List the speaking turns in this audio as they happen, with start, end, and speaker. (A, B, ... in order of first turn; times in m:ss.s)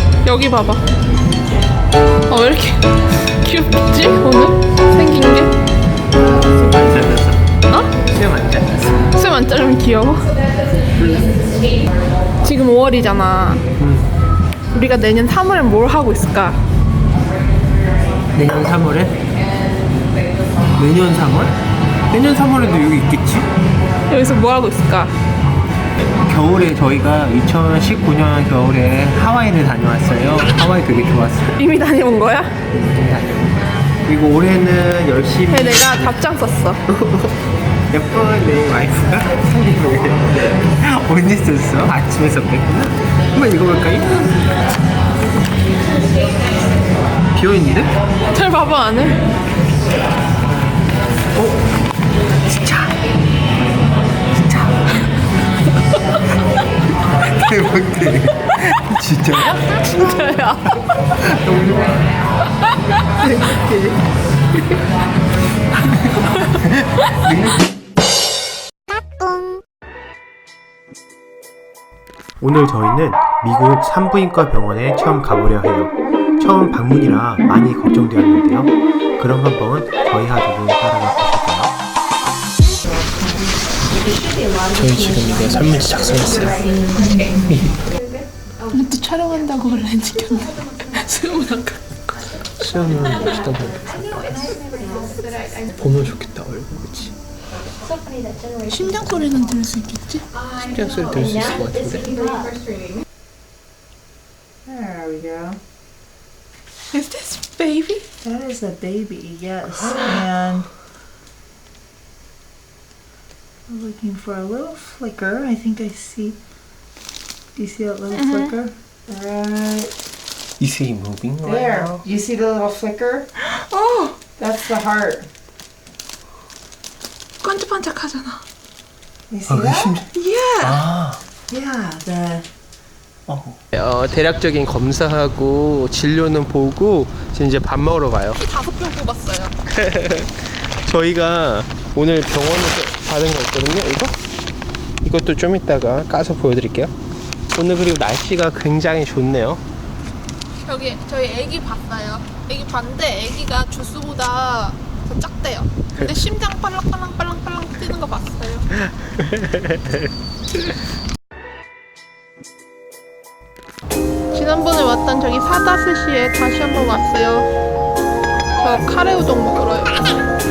0:00.2-0:00.8 A
0:02.3-0:05.5 A
0:06.2-0:07.4 B
0:07.7-0:08.0 A
0:08.0-0:08.9 B
0:09.1-0:10.3 A
0:11.0-0:11.4 B
0:12.4-0:13.6 A
0:13.8-0:14.1 B
0:14.7-0:16.6 A
0:18.3-0:19.2 B
0:20.8-0:21.5 B
0:22.1-0:23.5 B
0:24.1-0:25.1 A
0:26.2-0:31.6 B
0:31.5-0:32.6 A
0:32.7-0:36.2 B
0:35.5-0:36.8 A
0:36.9-0:37.4 B
0:37.9-0:44.3 B
0:47.3-0:47.9 B
0:48.3-0:49.2 A
0:51.4-0:51.6 B
0:52.5-0:53.0 B
0:54.4-0:54.9 B
0:57.2-1:00.0 B
0:59.5-1:00.6 A
1:01.1-1:02.1 B
1:03.2-1:04.0 B
1:06.6-1:07.7 B
1:12.4-1:21.7 B
1:24.7-1:26.7 B
1:28.7-1:31.8 A
1:32.6-1:34.3 B
1:35.7-1:37.1 B
1:38.7-1:40.2 A
1:40.6-1:42.2 B
1:44.7-1:45.6 C
1:46.9-1:48.0 A
1:48.2-1:50.7 C
1:53.7-1:56.4 C
1:57.6-1:59.9 C
1:58.1-1:58.6 A
2:00.6-2:02.0 B
2:01.4-2:03.3 C
2:03.4-2:04.2 A
2:04.4-2:05.3 C
2:07.4-2:08.4 A
2:09.3-2:10.0 C
2:09.5-2:10.1 B
2:10.1-2:10.8 A
2:10.6-2:11.2 B
2:11.5-2:12.5 C
2:13.3-2:18.4 B
2:18.4-2:19.6 A
2:19.7-2:24.2 B
2:25.0-2:26.9 B
2:27.6-2:29.6 B
2:30.6-2:38.7 A
2:39.0-2:40.0 B
2:44.3-2:47.5 A
2:48.6-2:50.0 A